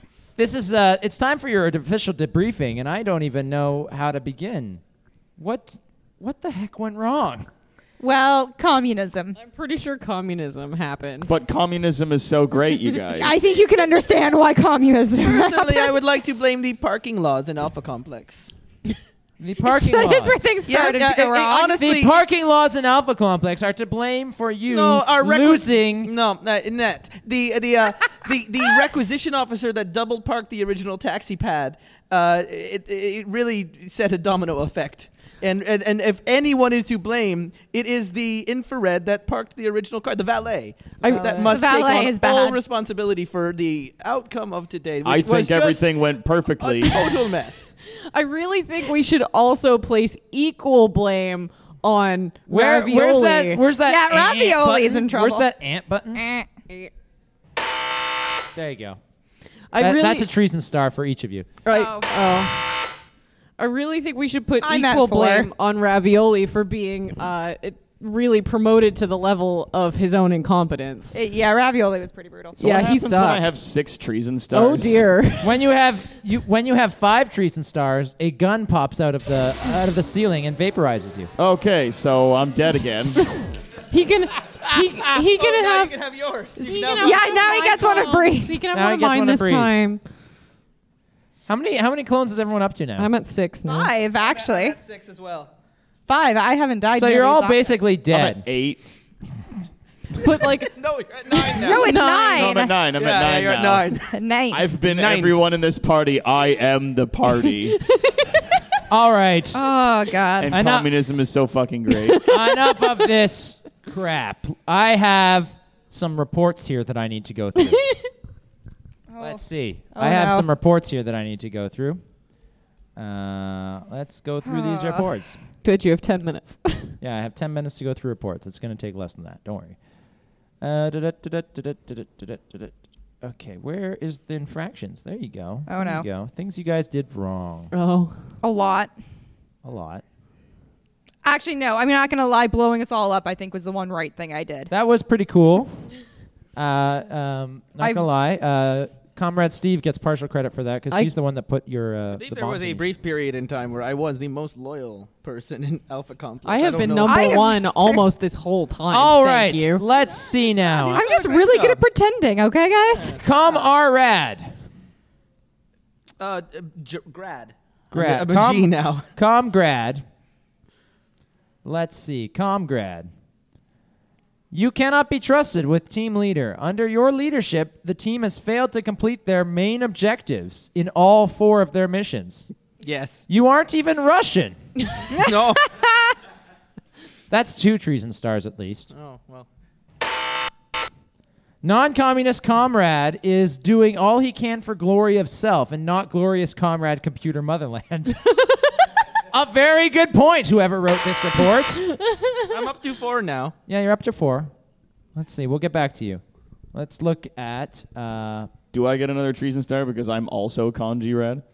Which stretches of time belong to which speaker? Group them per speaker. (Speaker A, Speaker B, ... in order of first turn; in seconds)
Speaker A: 0.4-4.8, 5.4-7.5, 19.4-26.1, 41.1-41.5, 52.5-56.2, 58.5-59.0, 59.8-61.5, 75.4-81.3, 84.6-85.2, 88.7-89.8, 91.5-93.1, 96.9-98.5, 108.9-109.7, 110.5-110.9, 112.2-117.9, 119.2-122.0, 123.0-125.4, 127.0-129.8, 130.6-137.7, 139.6-140.0, 144.7-145.8, 146.6-152.9, 158.9-161.1, 163.2-164.5, 167.9-170.0, 171.6-173.1, 174.5-182.5, 183.3-184.6, 187.3-188.9, 191.6-198.3, 199.3-201.9, 203.7-204.5, 205.2-206.2, 206.7-208.5
Speaker B: 8.0-9.4, 13.2-15.9, 19.6-21.5, 41.5-42.6, 53.8-55.5, 56.1-56.5, 61.7-62.1, 64.6-65.5, 71.1-72.6, 86.7-88.6, 93.6-94.8, 96.1-97.7, 101.5-102.8, 104.1-104.7, 109.5-110.6, 119.1-119.4, 120.0-120.5, 124.5-125.0, 135.7-136.1, 138.4-138.9, 141.2-144.7, 147.8-148.1, 157.0-158.0, 160.8-163.2, 185.1-186.2
Speaker C: 9.4-11.4, 41.0-41.6, 48.1-53.6, 59.7-60.3, 61.6-62.6, 63.6-71.2, 72.6-73.5, 74.5-75.6, 83.9-85.9, 86.6-90.0, 93.0-93.9, 100.2-100.8, 101.3-102.5, 108.0-108.2, 112.3-112.7, 125.6-127.0, 137.7-138.1, 156.4-159.8, 202.0-202.4
Speaker D: 11.3-13.4, 45.0-47.1, 72.6-75.1, 81.4-83.2, 98.1-98.8, 102.3-104.0, 104.5-107.8, 110.4-112.3, 208.7-211.4
Speaker E: 15.2-18.5, 20.7-22.2, 24.7-45.9, 46.6-47.7, 85.3-87.4, 94.2-95.5, 100.7-102.0, 102.9-104.1, 104.8-105.4, 152.1-157.5, 160.9-161.8, 163.0-163.6, 166.2-169.1, 182.8-183.2, 185.2-185.6, 188.9-189.5, 202.4-203.6